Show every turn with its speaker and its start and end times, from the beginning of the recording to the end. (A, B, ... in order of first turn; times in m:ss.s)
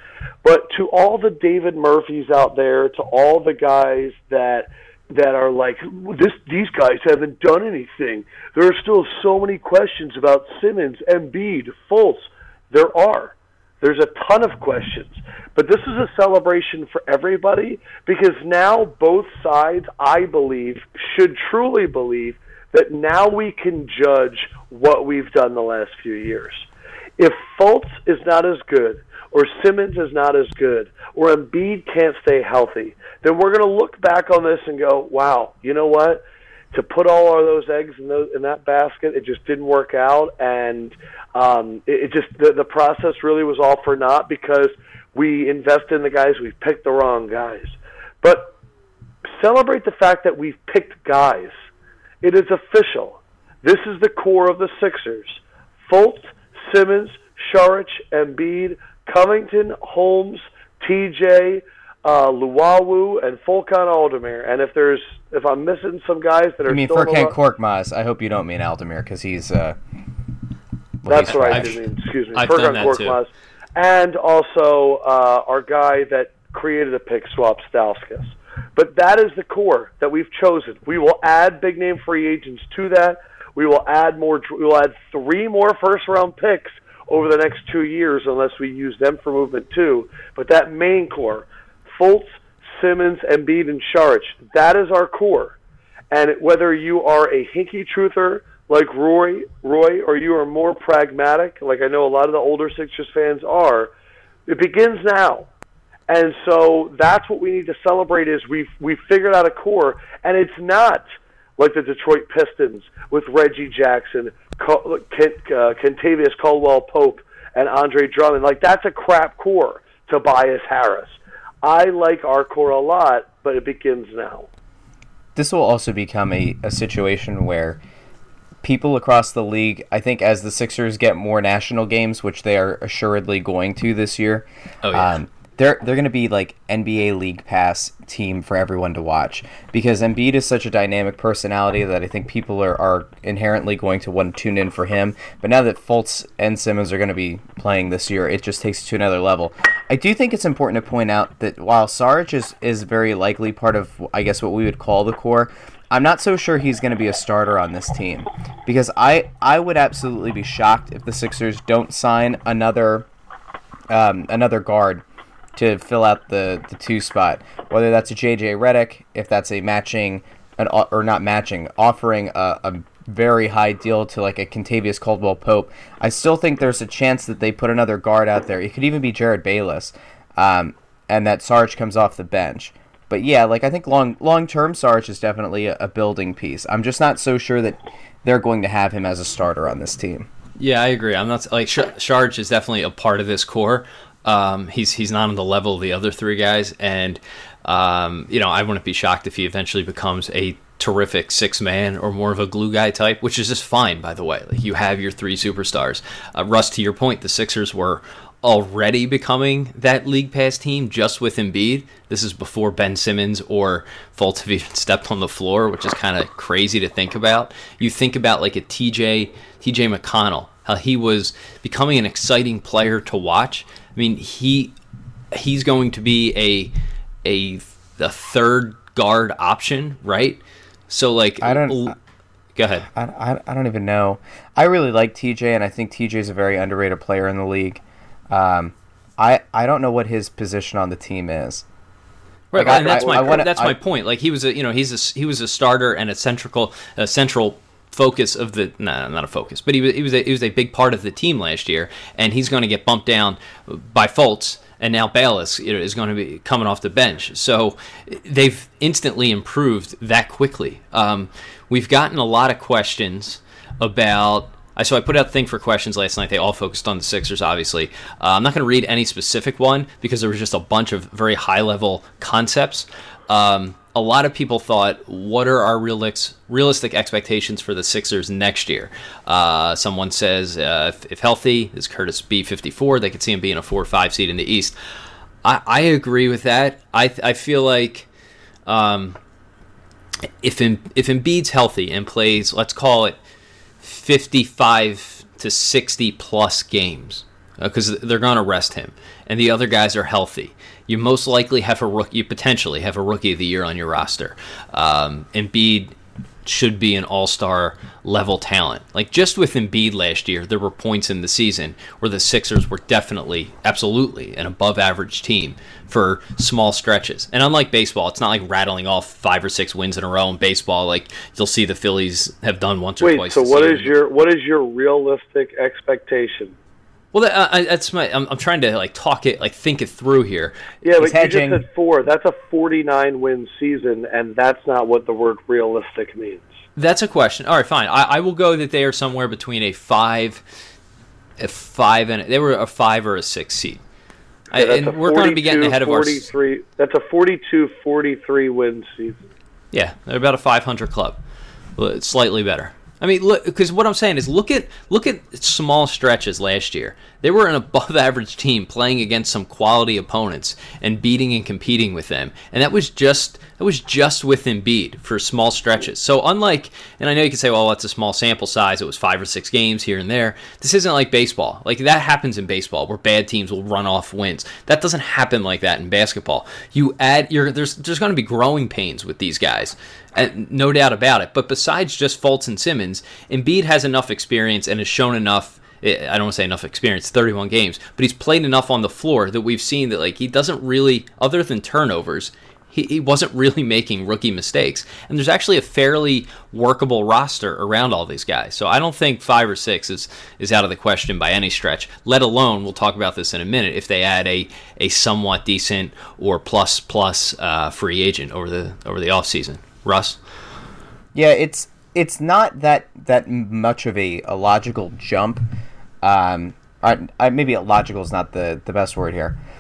0:00.4-0:26.6 A
0:27.2-0:48.5 A
0:49.3-0:51.5 A
0:52.2-1:07.4 A
1:06.7-1:09.8 B
1:11.0-1:11.8 B
1:11.1-1:35.6 A
1:11.3-1:11.8 C
1:12.3-1:13.2 C
1:36.1-1:43.9 A
1:44.5-1:45.5 A
1:46.1-1:51.0 A
1:51.6-2:04.5 A
2:05.4-2:07.8 B
2:08.6-2:43.0 B
2:14.8-2:15.2 C
2:43.9-2:45.0 B
2:45.6-3:10.3 B
3:10.6-3:44.7 C
3:45.3-3:46.7 C
3:47.2-3:52.0 C
3:51.4-3:51.9 B
3:52.5-3:52.9 C
3:52.9-4:01.6 B
4:02.5-4:44.7 C
4:02.6-4:03.8 B
4:02.6-4:03.3 A
4:45.4-4:48.1 C
4:48.6-4:49.2 C
4:50.4-4:53.2 C
4:53.8-5:05.9 C
5:06.4-5:23.9 C
5:23.0-5:26.6 A
5:27.1-5:30.6 C
5:30.8-5:36.5 A
5:31.0-5:31.6 B
5:36.8-5:40.4 C
5:41.4-5:43.8 C
5:44.5-5:46.3 C
5:44.5-5:49.2 A
5:49.7-5:51.2 C
5:51.8-6:50.2 C
6:51.1-6:55.4 B
6:56.0-6:59.4 B